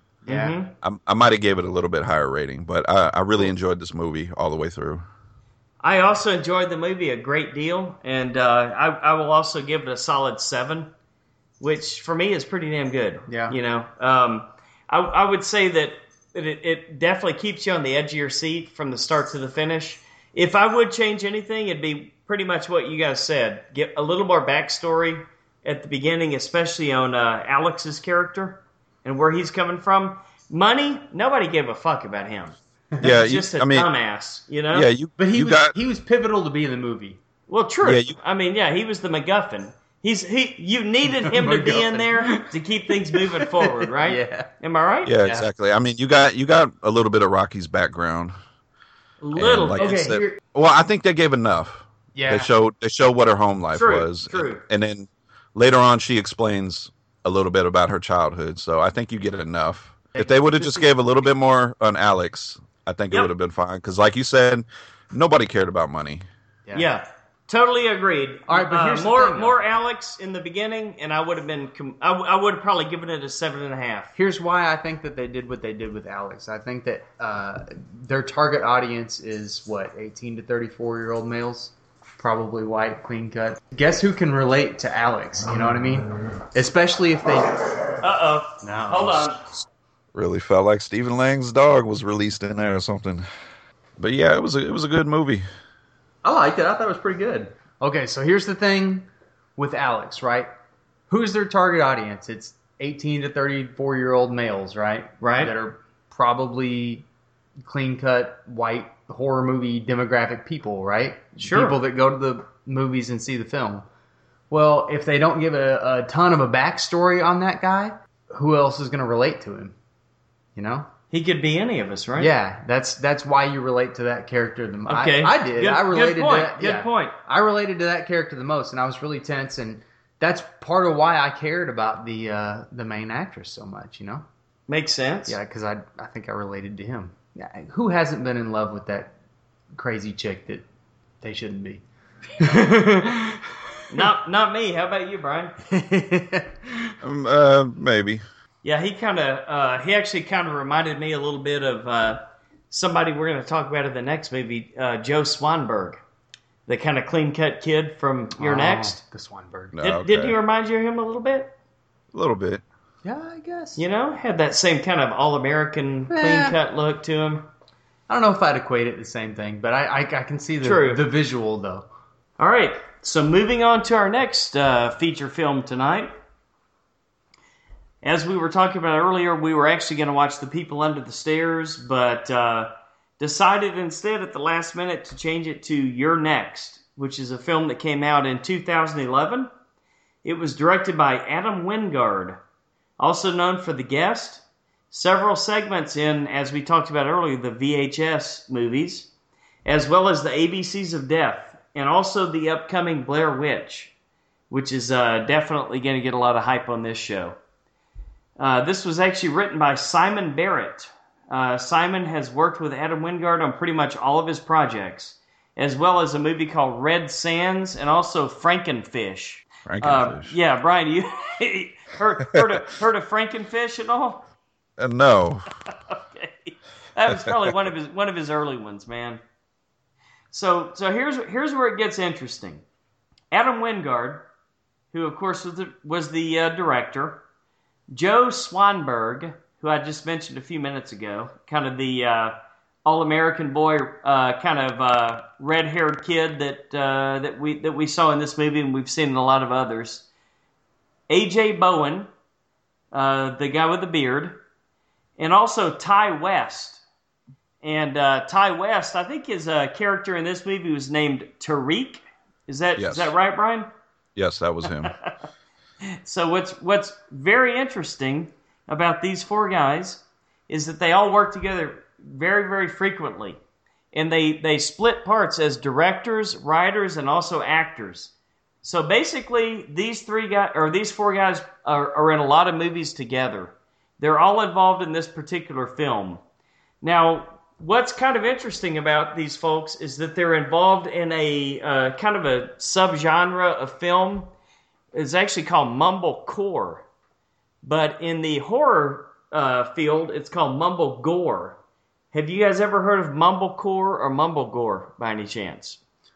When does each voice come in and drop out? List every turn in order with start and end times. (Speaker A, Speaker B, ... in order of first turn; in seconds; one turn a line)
Speaker A: 0.2-0.6
Speaker B: 0.3-0.7
Speaker C: 0.8-5.0
Speaker B: 5.8-10.9
Speaker B: 11.6-34.9
Speaker A: 13.3-13.6
Speaker C: 33.0-33.9
Speaker C: 34.7-35.8
Speaker A: 35.2-37.2
Speaker B: 37.5-45.1
Speaker C: 37.8-38.2
Speaker A: 41.2-44.5
Speaker C: 45.0-48.4
Speaker A: 45.2-45.5
Speaker B: 49.2-50.0
Speaker C: 49.4-66.2
Speaker A: 49.8-50.4
Speaker A: 52.1-52.5
Speaker B: 53.7-54.6
Speaker A: 60.1-61.0
Speaker B: 66.7-74.1
Speaker A: 68.5-69.6
Speaker A: 74.2-87.6
Speaker B: 88.0-89.4
Speaker A: 88.6-89.3
Speaker C: 90.1-93.3
Speaker C: 94.0-95.5
Speaker A: 96.2-100.5
Speaker A: 101.1-107.1
Speaker B: 105.2-105.5
Speaker A: 107.7-113.9
Speaker B: 111.4-111.8
Speaker A: 114.5-119.8
Speaker A: 120.6-120.9
Speaker B: 121.1-122.3
Speaker A: 122.2-134.2
Speaker B: 124.9-127.2
Speaker B: 134.7-135.4
Speaker A: 135.3-139.1
Speaker A: 139.7-140.7
Speaker A: 141.2-141.8
Speaker A: 142.4-143.4
Speaker B: 143.9-145.5
Speaker A: 145.7-146.9
Speaker C: 147.0-148.2
Speaker B: 148.6-156.0
Speaker B: 156.7-159.0
Speaker A: 158.4-159.7
Speaker C: 159.7-160.4
Speaker B: 159.8-161.5
Speaker C: 162.1-162.6
Speaker A: 163.1-163.8
Speaker B: 163.8-167.5
Speaker A: 166.1-166.6
Speaker A: 168.1-171.9
Speaker B: 170.6-171.0
Speaker B: 172.4-176.1
Speaker B: 178.0-189.5
Speaker B: 190.2-192.4
Speaker B: 193.0-199.1
Speaker B: 199.7-203.9
Speaker B: 204.5-207.4
Speaker B: 208.4-224.2
Speaker C: 219.7-220.3
Speaker C: 224.8-225.5
Speaker B: 225.9-229.2
Speaker B: 230.3-232.6
Speaker B: 233.3-234.2
Speaker B: 234.9-237.2
Speaker B: 237.9-250.1
Speaker B: 251.1-252.1
Speaker B: 252.9-254.4
Speaker B: 255.2-256.8
Speaker B: 257.6-263.7
Speaker C: 262.8-263.1
Speaker C: 264.2-264.9
Speaker B: 264.6-265.1
Speaker B: 265.9-273.4
Speaker B: 273.9-278.1
Speaker B: 278.6-286.2
Speaker B: 286.8-294.3
Speaker B: 294.9-296.9
Speaker B: 297.6-301.6
Speaker B: 302.1-305.8